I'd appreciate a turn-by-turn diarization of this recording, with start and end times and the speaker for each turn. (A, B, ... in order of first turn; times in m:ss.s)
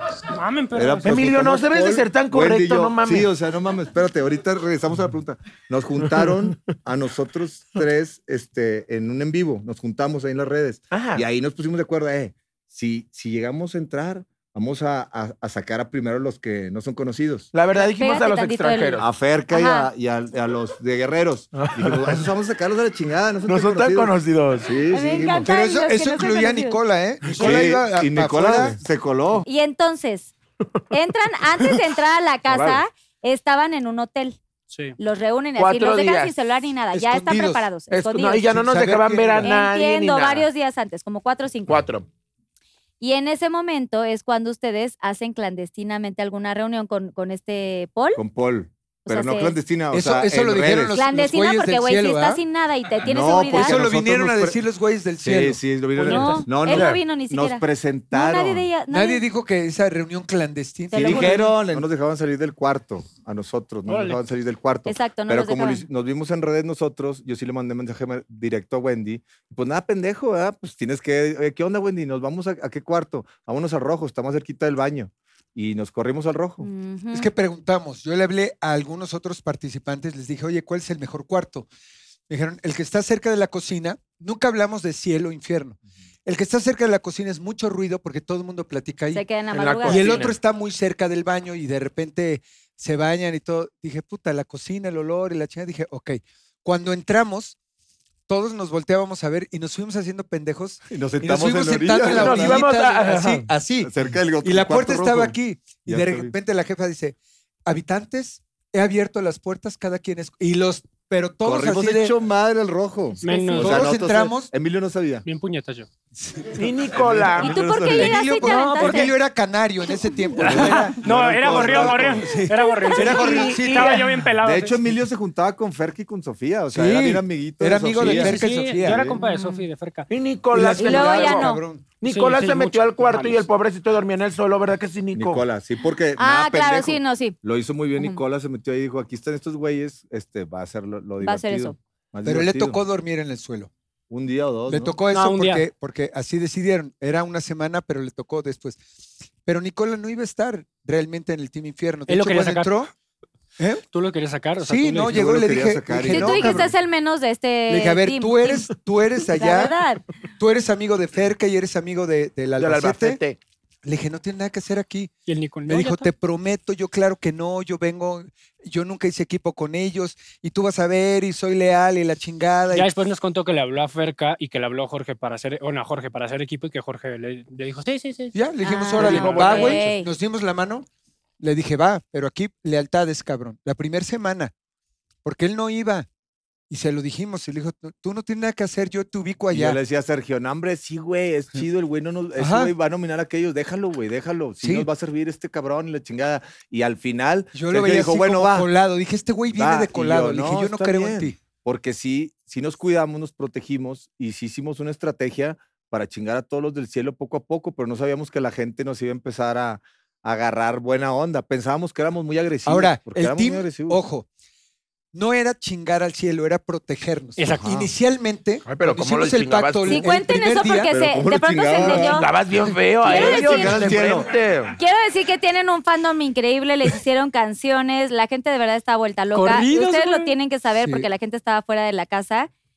0:00.3-0:01.2 A
0:00.7-0:17.5 B
0:01.0-0:03.3 C
0:10.9-0:11.2 C
0:17.5-0:19.0 C
0:17.7-0:19.9 D
0:19.0-0:25.5 B
0:21.5-0:22.2 C
0:23.4-0:24.7 C
0:24.9-0:26.8 D
0:25.4-0:28.8 E
0:27.2-0:27.6 C
0:27.4-0:29.4 B
0:29.4-0:30.3 D
0:30.9-0:34.4 D
0:35.0-0:38.5 D
0:35.6-0:36.3 C
0:36.9-0:37.6 E
0:37.9-0:40.5 C
0:38.5-0:39.5 E
0:39.4-0:41.8 D
0:41.7-0:42.0 C
0:43.0-0:48.2 D
0:48.2-0:50.9 B
0:49.0-0:49.6 D
0:49.9-0:52.4 E
0:50.9-0:53.8 D
0:53.0-0:54.6 B
0:53.5-0:55.6 E
0:55.2-0:58.7 B
0:56.0-0:56.5 A
0:56.0-0:59.2 D
0:56.6-0:57.0 C
0:58.9-1:01.8 E
1:00.9-1:01.8 D
1:00.9-1:16.6 B
1:03.9-1:04.2 A
1:04.8-1:05.8 D
1:16.6-1:17.3 D
1:17.1-1:21.7 E
1:22.3-1:29.2 E
1:29.1-1:30.2 D
1:29.5-1:30.4 C
1:29.8-1:37.6 E
1:38.3-1:52.1 E
1:40.9-1:42.6 B
1:42.0-1:43.5 C
1:43.8-1:45.3 B
1:45.8-1:46.3 B
1:51.4-1:55.2 B
1:53.2-1:53.9 A
1:53.2-1:53.8 D
1:53.5-1:54.5 E
1:55.2-1:55.9 A
1:56.2-1:56.6 E
1:56.6-1:57.6 C
1:56.9-1:58.4 B
1:57.4-1:59.1 D
1:57.9-2:04.1 E
1:58.4-1:59.0 A
2:00.4-2:02.4 B
2:00.5-2:04.8 A
2:02.7-2:03.1 D
2:03.2-2:04.1 C
2:04.4-2:09.2 B
2:06.7-2:09.2 E
2:08.0-2:10.1 A
2:09.2-2:09.6 D
2:10.1-2:15.4 C
2:10.5-2:11.8 E
2:10.8-2:11.6 D
2:12.0-2:13.5 A
2:15.1-2:22.8 B
2:16.2-2:17.4 D
2:21.2-2:21.8 D
2:22.2-2:23.7 E
2:24.1-2:25.0 B
2:24.7-2:28.8 E
2:25.1-2:25.6 A
2:29.4-2:32.9 E
2:32.1-2:32.8 A
2:33.6-2:33.8 E
2:33.9-2:35.1 A
2:34.6-2:36.7 E
2:35.0-2:36.7 B
2:36.1-2:38.7 D
2:37.7-2:39.8 E
2:39.3-2:40.0 D
2:40.4-2:43.2 E
2:42.6-2:43.4 C
2:43.8-2:45.1 E
2:45.3-2:46.1 A
2:45.7-2:52.9 E
2:52.7-2:58.3 A
2:58.3-3:00.9 E
2:58.6-3:00.1 D
2:58.9-2:59.9 A
3:01.4-3:04.5 E
3:05.2-3:06.1 E
3:06.7-3:09.8 E
3:09.5-3:18.7 B
3:12.4-3:12.7 E
3:14.6-3:14.9 E
3:17.5-3:21.4 E
3:19.5-3:34.0 B
3:32.6-3:34.2 E
3:35.1-3:40.9 E
3:37.4-3:37.6 A
3:37.6-3:37.9 B
3:38.6-3:40.0 C
3:39.8-3:42.3 D
3:40.9-3:42.2 B
3:41.8-3:44.8 C
3:43.0-3:44.3 B
3:43.0-3:43.9 D
3:44.8-3:52.5 D
3:49.3-3:50.3 A
3:50.8-3:51.1 E